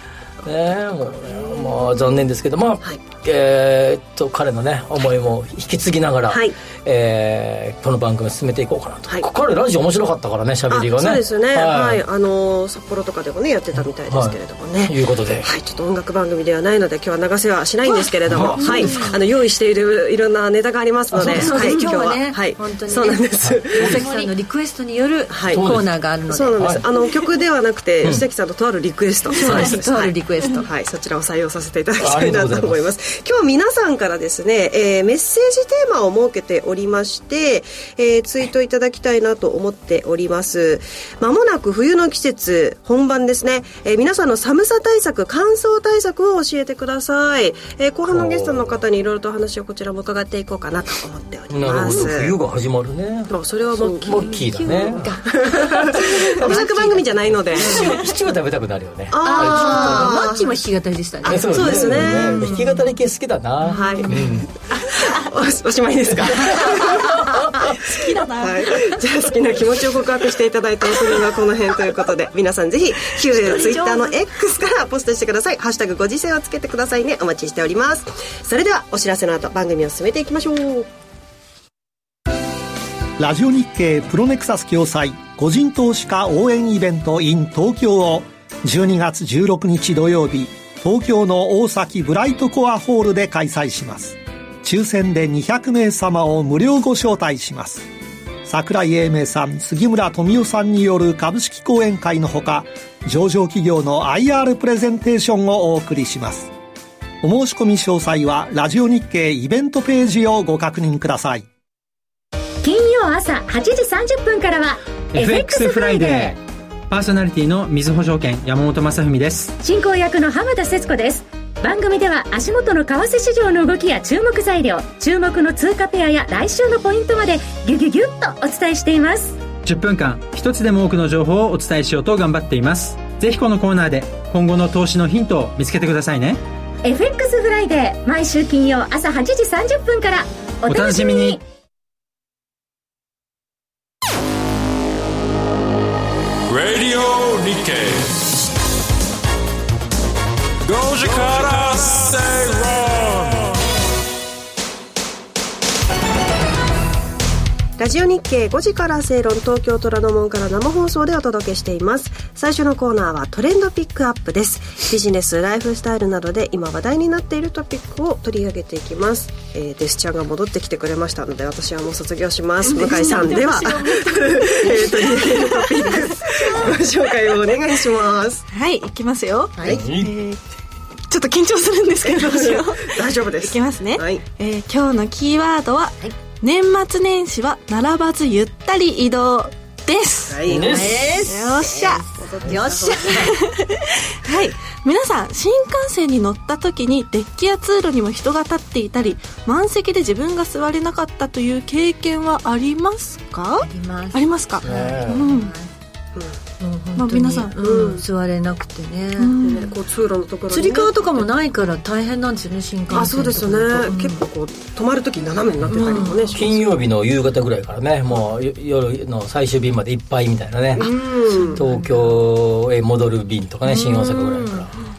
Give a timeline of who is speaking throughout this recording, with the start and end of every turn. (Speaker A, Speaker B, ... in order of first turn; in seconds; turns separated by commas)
Speaker A: 0.4-12.0, Speaker B: 0.7-2.1, Speaker B: 2.8-3.1, Speaker B: 6.3-6.5, Speaker B: 10.7-24.3, Speaker A: 13.8-15.5, Speaker A: 18.2-19.1, Speaker C: 18.6-19.1, Speaker A: 21.1-21.9, Speaker C: 21.2-26.7, Speaker A: 23.4-24.0, Speaker B: 25.3-52.4, Speaker A: 25.5-25.9, Speaker A: 26.6-26.8, Speaker A: 28.0-28.3, Speaker C: 29.3-30.6, Speaker A: 29.4-29.8, Speaker A: 32.0-32.9, Speaker A: 48.1-48.8, Speaker A: 51.5-55.1, Speaker B: 53.3-58.0, Speaker C: 54.1-58.0, Speaker A: 56.2-56.8, Speaker A: 57.5-60.2, Speaker B: 59.1-60.5, Speaker C: 59.2-62.9, Speaker A: 61.2-64.5, Speaker B: 61.3-62.7, Speaker C: 63.6-64.4, Speaker B: 63.7-67.3, Speaker A: 67.0-67.8, Speaker D: 67.8-69.0, Speaker B: 68.3-80.9, Speaker D: 73.3-74.2, Speaker E: 83.2-97.8, Speaker E: 98.4-106.5, Speaker E: 107.2-111.5, Speaker F: 112.6-116.3, Speaker G: 115.1-119.5, Speaker F: 119.6-129.4, Speaker G: 129.6-136.4, Speaker F: 136.8-141.4, Speaker G: 140.7-141.4, Speaker H: 146.5-148.1, Speaker H: 150.7-153.5, Speaker B: 157.8-178.4, Speaker D: 172.6-176.1, Speaker D: 178.5-180.4, Speaker A: 179.6-180.1, Speaker D: 181.1-190.4, Speaker B: 182.1-184.2, Speaker B: 190.3-190.9, Speaker A: 190.4-191.1, Speaker C: 190.6-193.3, Speaker D: 191.3-192.0, Speaker B: 192.2-193.2, Speaker D: 193.1-205.5, Speaker C: 203.6-205.7, Speaker A: 204.6-205.2, Speaker C: 206.6-209.4, Speaker D: 206.9-207.9, Speaker B: 207.6-208.0, Speaker D: 209.2-209.8, Speaker B: 209.4-211.3, Speaker C: 210.5-214.2, Speaker B: 212.9-216.7, Speaker C: 215.7-216.2, Speaker A: 215.7-220.9, Speaker B: 220.8-221.6, Speaker C: 220.8-222.2, Speaker A: 221.5-224.7, Speaker C: 223.6-224.7